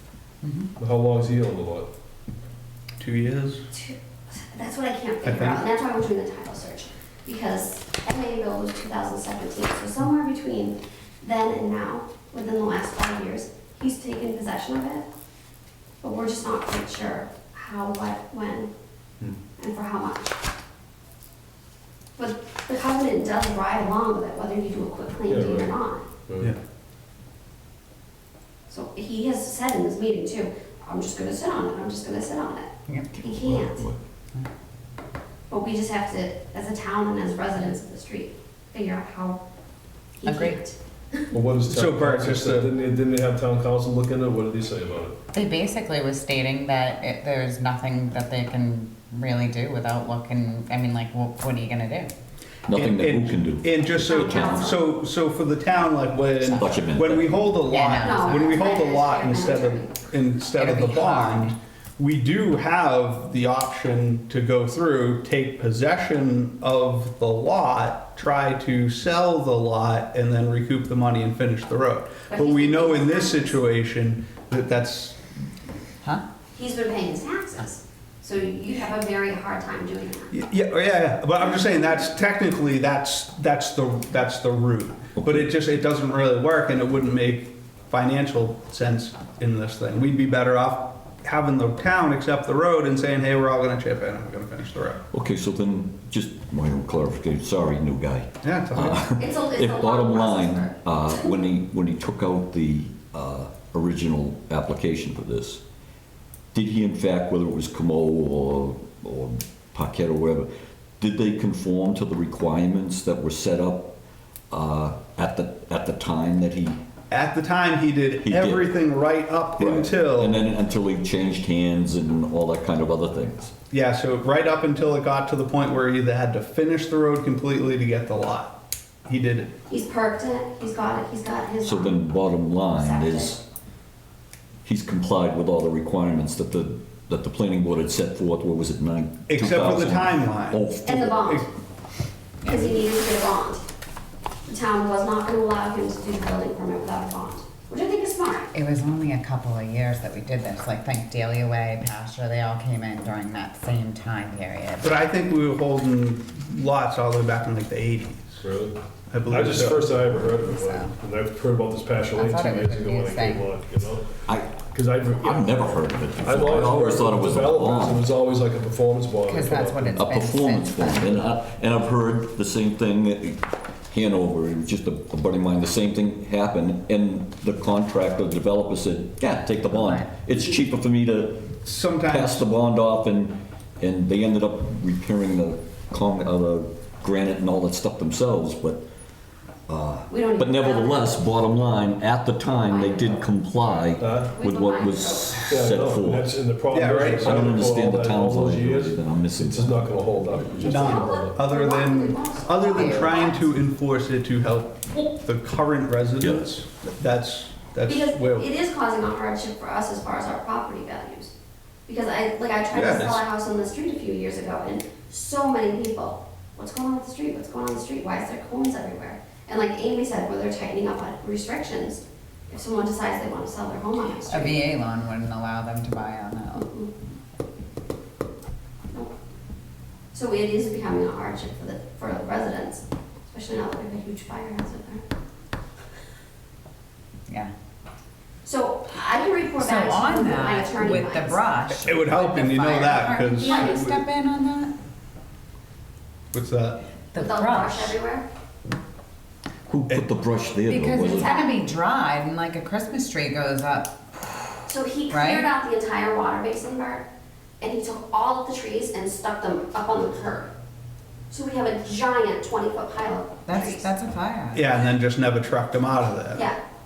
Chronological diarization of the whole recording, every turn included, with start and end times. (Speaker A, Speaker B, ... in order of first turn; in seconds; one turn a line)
Speaker A: 0.4-0.7
Speaker B: 0.8-1.9
Speaker C: 3.0-3.6
Speaker D: 3.7-15.1
Speaker C: 5.2-5.7
Speaker D: 16.0-18.7
Speaker D: 19.6-20.3
Speaker D: 22.2-26.1
Speaker B: 25.3-25.8
Speaker B: 26.3-26.5
Speaker D: 28.7-33.9
Speaker A: 32.9-33.5
Speaker E: 33.2-34.0
Speaker D: 35.5-39.4
Speaker D: 40.2-41.3
Speaker A: 40.2-40.6
Speaker B: 41.3-45.2
Speaker C: 41.7-42.8
Speaker A: 45.3-52.1
Speaker E: 52.7-54.8
Speaker C: 52.7-75.2
Speaker D: 54.1-54.8
Speaker A: 56.4-56.8
Speaker E: 56.6-57.3
Speaker A: 57.6-58.4
Speaker D: 57.9-59.9
Speaker A: 60.5-61.6
Speaker D: 72.3-73.6
Speaker D: 76.5-80.3
Speaker C: 80.3-95.0
Speaker D: 81.4-82.1
Speaker E: 85.2-85.5
Speaker E: 95.1-105.6
Speaker C: 98.4-99.0
Speaker D: 99.2-101.3
Speaker E: 106.5-110.5
Speaker E: 111.0-114.0
Speaker E: 114.5-116.8
Speaker C: 117.1-120.4
Speaker E: 118.2-118.7
Speaker E: 119.6-123.5
Speaker C: 123.7-129.5
Speaker D: 129.7-132.1
Speaker E: 131.6-133.4
Speaker D: 132.7-133.4
Speaker E: 134.6-141.4
Speaker C: 139.3-140.6
Speaker D: 140.8-141.5
Speaker A: 142.4-142.8
Speaker D: 142.4-143.6
Speaker D: 144.5-148.5
Speaker A: 148.5-155.0
Speaker C: 154.8-158.4
Speaker B: 158.4-158.8
Speaker C: 159.1-160.2
Speaker B: 159.3-164.1
Speaker A: 160.4-160.9
Speaker A: 162.2-163.5
Speaker E: 164.3-168.1
Speaker B: 164.6-165.6
Speaker B: 166.2-170.0
Speaker A: 169.3-171.2
Speaker E: 170.0-188.8
Speaker A: 179.7-180.1
Speaker C: 181.7-182.5
Speaker E: 189.7-196.3
Speaker D: 190.1-191.2
Speaker D: 192.5-193.3
Speaker B: 194.0-194.3
Speaker D: 194.3-195.5
Speaker B: 195.5-201.4
Speaker C: 196.7-197.6
Speaker E: 197.2-199.8
Speaker D: 200.6-203.4
Speaker C: 200.6-208.5
Speaker A: 202.8-203.3
Speaker E: 206.2-206.5
Speaker D: 207.9-211.3
Speaker D: 211.9-224.6
Speaker C: 212.7-213.2
Speaker A: 224.3-226.7
Speaker D: 226.6-226.9
Speaker D: 230.1-235.0
Speaker D: 238.4-241.5
Speaker A: 239.6-244.7
Speaker C: 241.7-243.9
Speaker D: 243.4-243.9
Speaker C: 246.3-246.8
Speaker A: 247.1-248.0
Speaker D: 247.2-248.3
Speaker E: 249.7-251.3
Speaker A: 250.7-254.6
Speaker D: 251.0-251.6
Speaker D: 254.7-257.1
Speaker A: 255.1-255.5
Speaker D: 257.6-260.5
Speaker D: 261.3-263.9
Speaker A: 263.5-264.7
Speaker C: 264.5-266.5